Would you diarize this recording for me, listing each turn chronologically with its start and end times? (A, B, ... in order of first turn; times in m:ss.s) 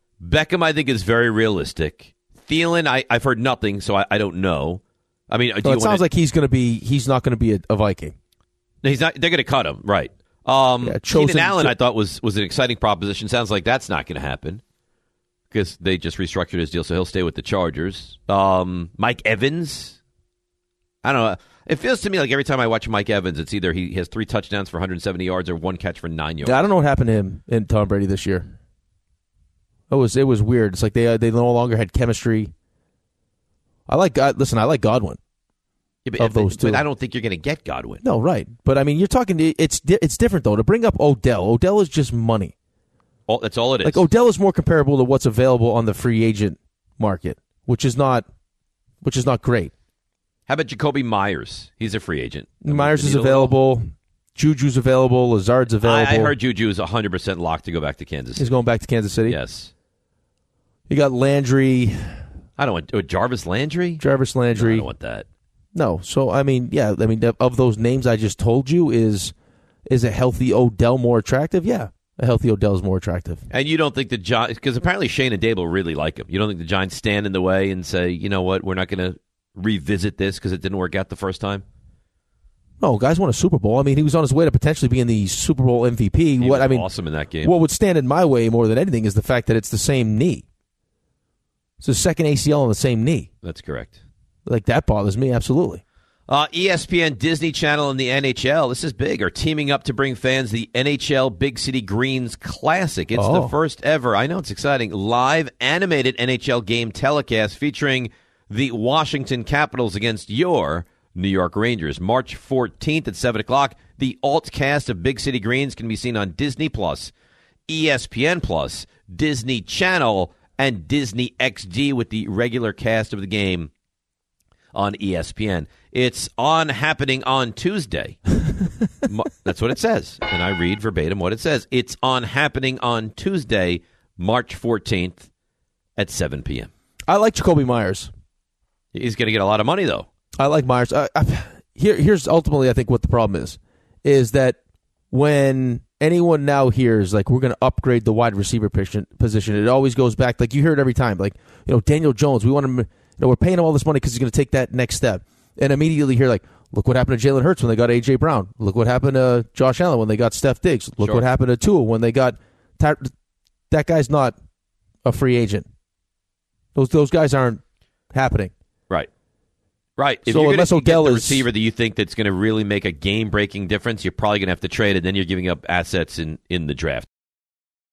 0:00.2-0:06.0 A
0:05.6-0:08.1 B
0:08.8-0:14.6 A
0:10.8-0:11.8 B
0:15.5-0:20.0 A
0:21.0-0:26.6 A
0:26.4-0:28.5 B
0:29.9-0:32.5 B
0:33.9-0:35.2 B
0:36.0-0:38.0 A
0:36.2-0:36.8 B
0:38.0-0:42.5 B
0:43.3-0:44.0 A
0:43.8-0:48.2 B
0:49.0-0:49.7 B
0:50.5-0:53.5 A
0:52.6-0:56.3 B
0:55.8-0:58.5 A
0:58.4-0:59.4 B
0:59.3-0:59.7 A
1:00.9-1:02.2 B
1:02.6-1:04.0 A
1:04.0-1:04.9 B
1:04.5-1:05.2 A
1:05.7-1:09.3 B
1:09.9-1:13.4 B
1:13.5-1:21.6 A
1:22.8-1:26.8 B
1:26.4-1:27.5 A
1:27.4-1:30.4 B
1:31.8-1:33.3 B
1:33.4-1:34.0 A
1:34.4-1:35.8 B
1:36.3-1:57.1 A
1:43.1-1:43.5 B
1:57.7-2:03.7 A
2:04.7-2:08.2 A
2:09.1-2:15.3 A
2:16.0-2:16.7 A
2:17.1-2:18.1 B
2:18.9-2:20.1 A
2:20.4-2:24.6 B
2:25.1-2:43.1 B
2:43.7-2:44.4 B
2:45.0-2:45.7 B
2:46.7-2:48.5 B
2:50.0-2:57.1 A
2:50.3-2:51.4 B